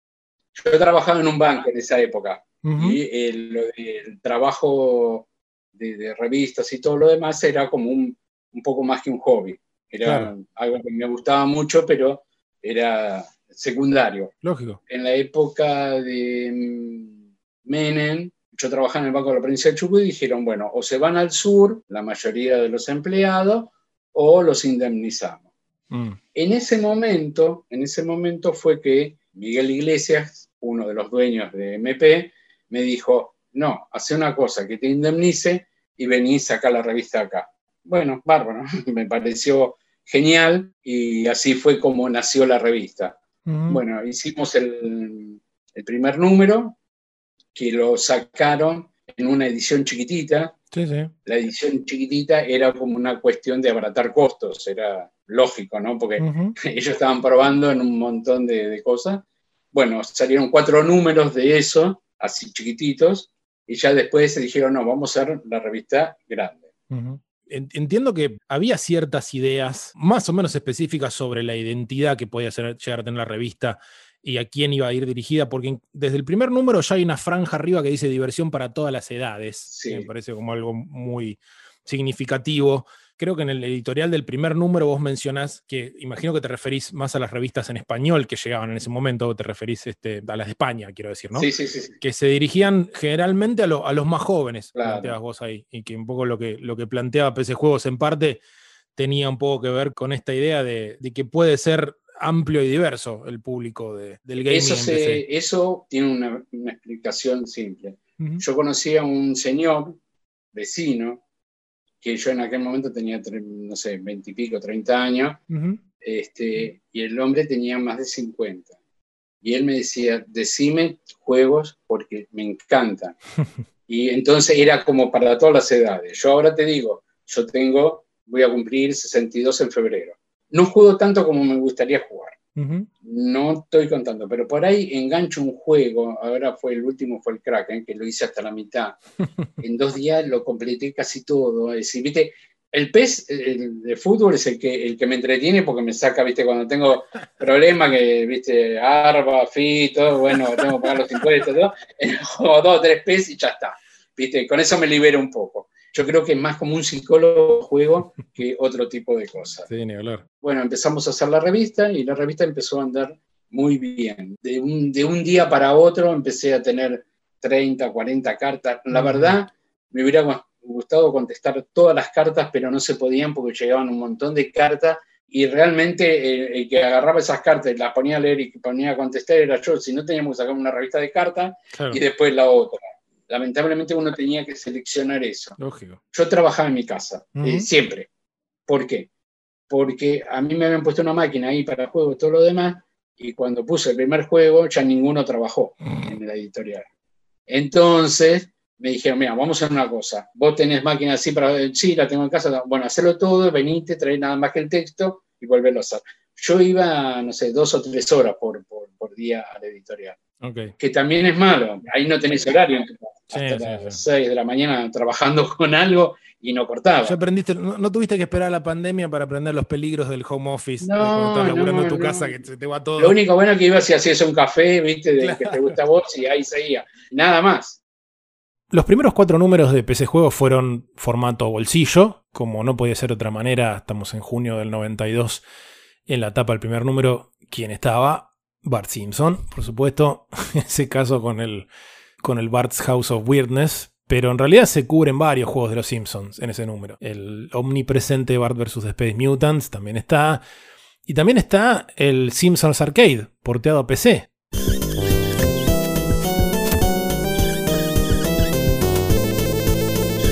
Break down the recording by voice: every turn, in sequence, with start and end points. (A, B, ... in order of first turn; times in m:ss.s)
0:00.6-0:14.3 A
0:02.6-0:03.0 B
0:10.0-0:10.3 B
0:14.4-0:14.8 B
0:14.9-0:25.4 A
0:25.9-0:26.2 B
0:26.3-0:43.2 A
0:43.5-0:43.8 B
0:43.7-0:46.8 A
0:47.5-0:50.6 A
0:50.7-0:51.1 B
0:51.2-1:06.7 A
0:56.2-0:56.6 B
1:06.9-1:31.5 B
1:19.7-1:20.1 A
1:31.3-1:32.0 A
1:32.0-1:38.4 B
1:34.8-1:35.1 A
1:39.0-1:45.2 B
1:44.5-1:50.0 A
1:50.5-1:51.2 A
1:52.0-1:55.4 A
1:55.5-1:55.8 B
1:56.0-1:58.8 A
1:59.4-2:03.2 A
2:03.9-2:12.4 A
2:12.6-2:12.9 B
2:13.0-2:19.0 A
2:19.6-2:39.7 A
2:39.7-2:40.2 B
2:40.4-3:05.6 A
2:48.9-2:49.3 B
3:01.7-3:02.0 B
3:05.6-3:06.0 B
3:06.1-3:08.1 A
3:07.4-3:07.6 B
3:08.7-3:09.1 A
3:09.7-3:16.8 A
3:17.5-3:30.2 A
3:30.4-3:30.7 B
3:30.8-3:37.2 A
3:33.3-3:34.0 B
3:37.0-3:43.2 B
3:40.8-3:42.4 A
3:43.0-3:47.8 A
3:45.2-3:45.8 B
3:48.7-3:55.4 B
3:56.1-4:01.7 B
4:02.2-4:10.4 B
4:11.0-4:14.3 B